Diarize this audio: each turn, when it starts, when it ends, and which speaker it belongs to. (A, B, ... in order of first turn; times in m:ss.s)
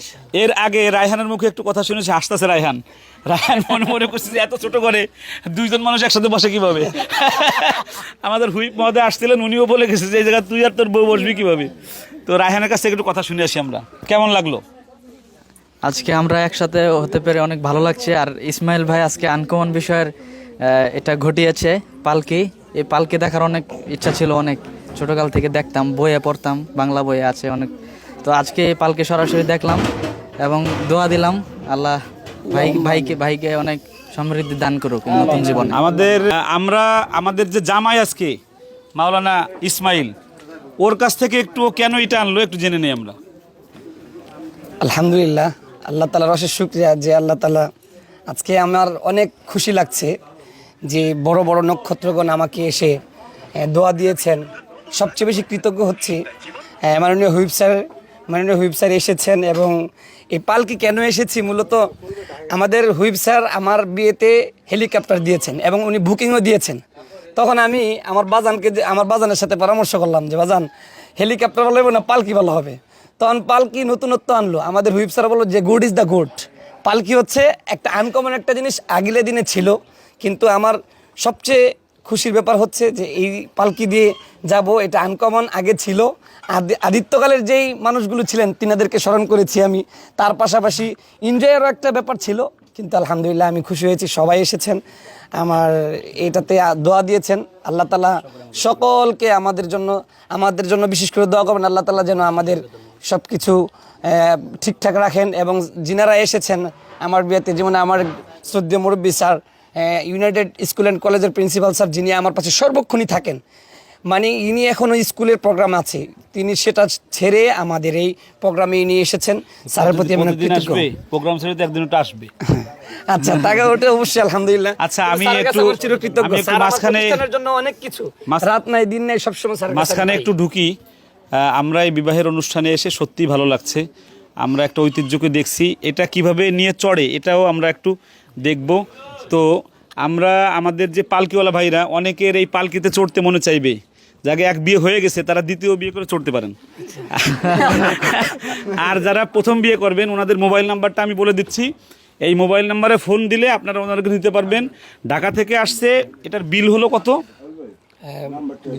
0:00.4-0:11.7 A
0:12.3-0:14.6 A
0:15.8-0:20.1 B
0:20.6-0:27.7 B
0:28.2-0:29.8 B
0:30.4-0:32.0 B
0:32.5-0:35.8 B
0:35.7-0:38.4 A
0:39.0-0:40.1 A
0:40.8-0:43.2 A
0:44.8-0:47.7 C
0:48.3-0:50.1 C
0:50.9-0:53.0 C
0:53.6-0:56.2 C
0:56.8-0:59.8 C
1:00.3-1:01.8 C
1:02.5-1:06.8 C
1:07.4-1:34.8 C
1:35.4-1:53.4 C
1:54.1-2:00.9 C
1:59.8-2:02.3 A
2:02.5-2:10.3 C
2:04.8-2:07.2 A
2:09.7-2:10.7 A
2:11.4-2:13.8 A
2:14.4-2:19.5 A
2:20.0-2:26.6 A
2:27.1-2:31.7 A
2:32.2-2:37.2 A
2:38.1-2:38.4 C